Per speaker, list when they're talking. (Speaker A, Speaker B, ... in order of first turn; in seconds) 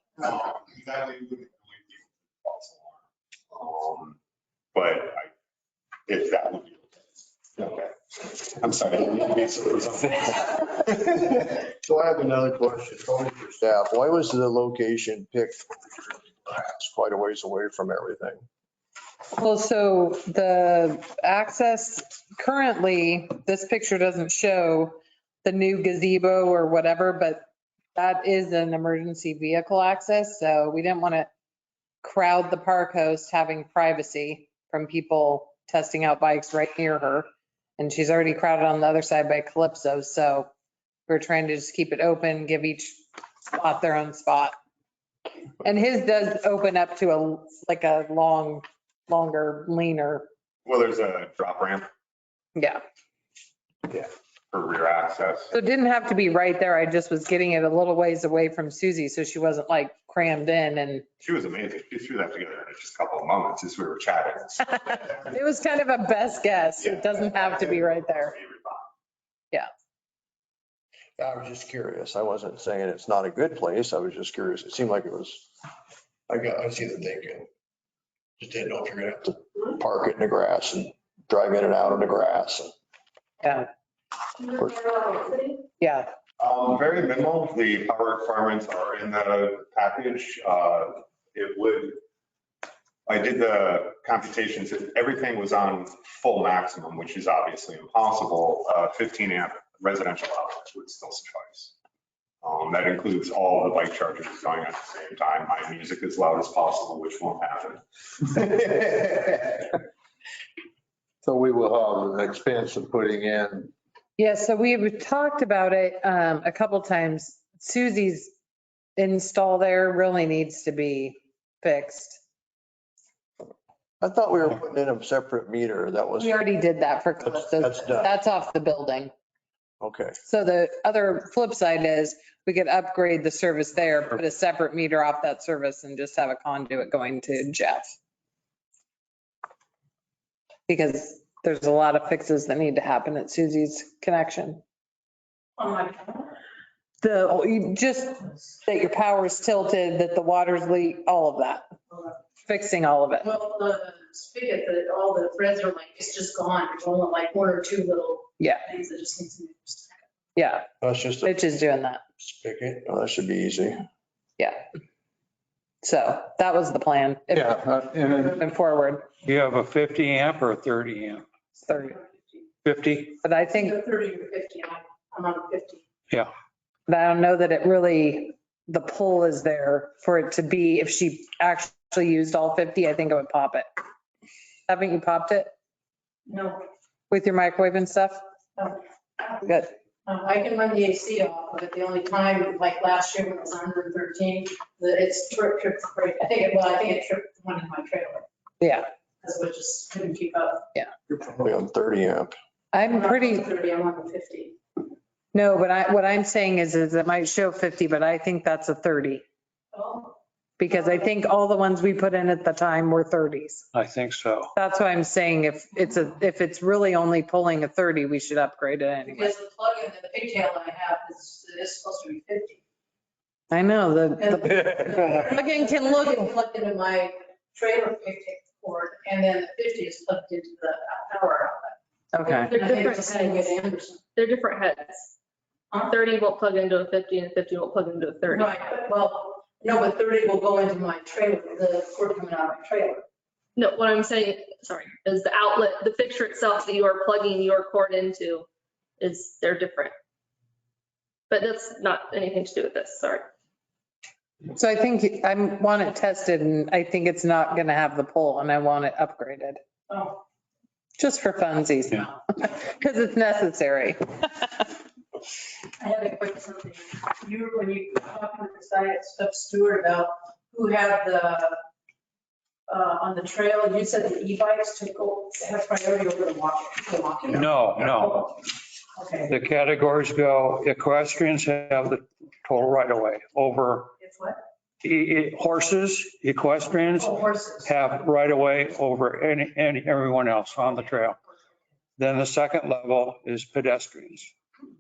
Speaker A: 0.2-4.2, 4.7-5.3, 6.1-6.9, 7.6-11.2, 50.6-51.9, 53.9-55.5, 61.2-65.4, 66.8-68.8, 86.4-92.0, 93.1-101.7, 102.4-109.8
Speaker B: 11.8-15.7, 16.4-18.4, 71.2-75.5, 76.3-77.5, 78.4-82.7, 124.0-126.4, 127.2-128.1, 129.8-130.2, 160.8-161.3, 162.2-163.8, 201.4-202.3
Speaker C: 19.3-27.4, 27.9-31.3, 32.0-37.3, 37.8-40.5, 41.1-43.0, 43.5-44.5, 45.6-50.3, 52.5-52.8, 55.5-61.1, 64.8-68.3, 83.4-83.7, 85.8-86.1, 114.2-118.3, 119.0-122.2, 126.2-129.1, 130.3-137.9, 140.7-144.6, 147.0-151.6, 152.5-153.3, 160.4-160.7, 161.2-162.0, 165.8-167.7, 168.3-169.1, 171.6-172.0, 173.2-173.8, 176.9-183.7, 184.7-185.5, 187.1-188.2, 189.4-189.7, 198.6-198.9, 202.7-203.5, 205.3-209.2, 210.6-213.7, 214.6-219.3, 223.5-226.3, 232.1-232.6, 254.5-259.6, 261.0-264.7
Speaker D: 84.4-85.6, 232.3-233.5, 234.2-235.1, 235.8-238.5, 243.6-248.5, 249.0-249.9, 251.3-253.3
Speaker E: 111.2-113.7, 167.3-168.4
Speaker F: 145.6-146.3, 153.2-160.0, 173.5-175.8, 186.3-186.6, 190.1-198.2, 199.2-200.7, 202.9-204.6, 209.7-210.2, 219.1-222.6, 224.2-231.8, 232.4-234.0, 238.3-243.1, 259.9-260.2, 265.8-271.6, 272.7-277.5, 279.0-279.3, 284.0-284.4, 287.0-287.7
Speaker G: 169.2-171.2, 172.6-173.2, 213.7-214.5, 277.3-278.4, 279.3-284.0, 284.8-291.2, 292.0-294.3